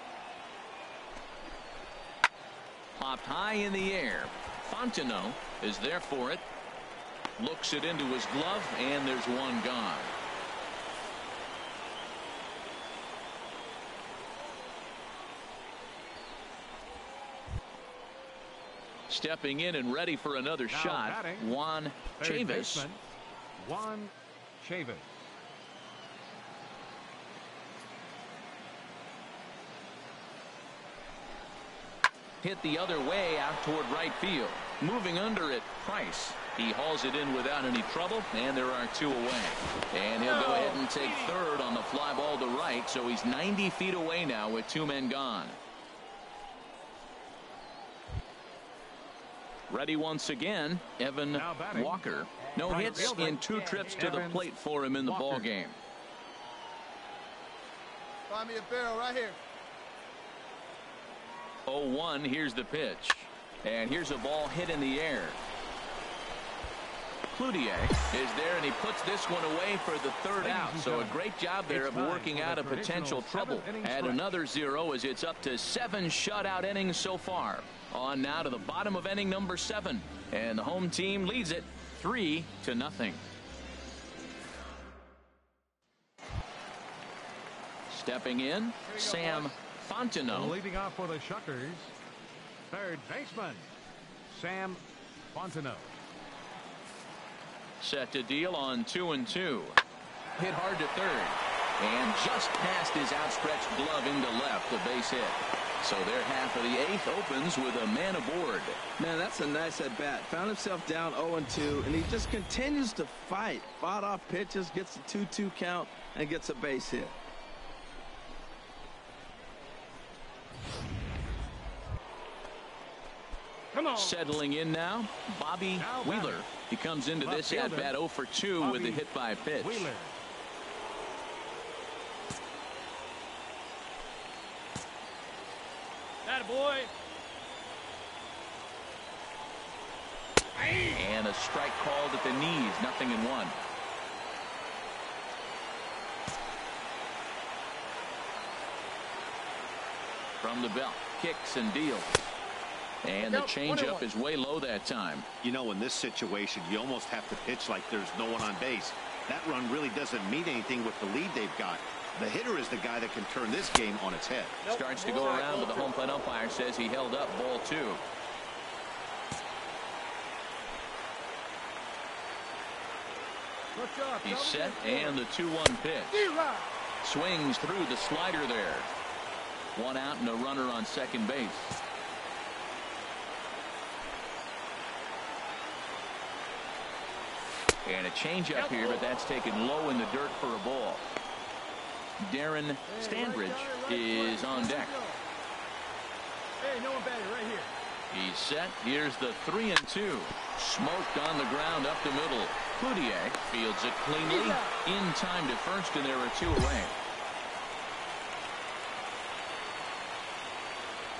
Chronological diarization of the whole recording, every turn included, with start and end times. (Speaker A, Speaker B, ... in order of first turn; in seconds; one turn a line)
Speaker A: 2.9-6.4
Speaker A: 7.4-10.1
Speaker A: 19.1-22.9
Speaker B: 20.7-21.4
Speaker B: 22.2-23.0
Speaker B: 23.6-25.1
Speaker A: 32.4-45.6
Speaker A: 49.7-55.8
Speaker B: 51.3-52.0
Speaker C: 52.7-54.4
Speaker B: 52.7-53.3
Speaker B: 54.0-54.4
Speaker B: 55.0-55.5
Speaker C: 58.3-59.4
Speaker A: 61.7-65.4
Speaker A: 67.3-83.2
Speaker B: 70.4-71.2
Speaker B: 71.7-74.2
Speaker A: 87.9-90.6
Speaker B: 90.3-91.9
Speaker B: 92.7-93.7
Speaker B: 94.3-94.8
Speaker B: 95.3-95.9
Speaker A: 97.8-99.8
Speaker A: 100.3-108.8
Speaker D: 109.0-117.1
Speaker A: 123.9-129.9
Speaker B: 125.8-126.4
Speaker B: 127.2-127.9
Speaker B: 128.6-129.0
Speaker B: 129.6-130.1
Speaker C: 136.3-136.9
Speaker A: 140.8-143.6
Speaker A: 150.4-152.2
Speaker A: 153.0-155.2
Speaker C: 153.4-154.0
Speaker E: 155.4-164.6
Speaker A: 164.7-168.0
Speaker C: 164.7-165.8
Speaker C: 173.7-175.2
Speaker A: 174.2-176.4
Speaker C: 176.2-176.7
Speaker A: 177.0-178.9
Speaker A: 179.7-181.8
Speaker A: 187.8-191.0
Speaker C: 188.7-189.0
Speaker A: 192.2-194.9
Speaker C: 192.9-195.2
Speaker C: 196.6-197.7
Speaker A: 198.1-206.9
Speaker C: 204.3-204.7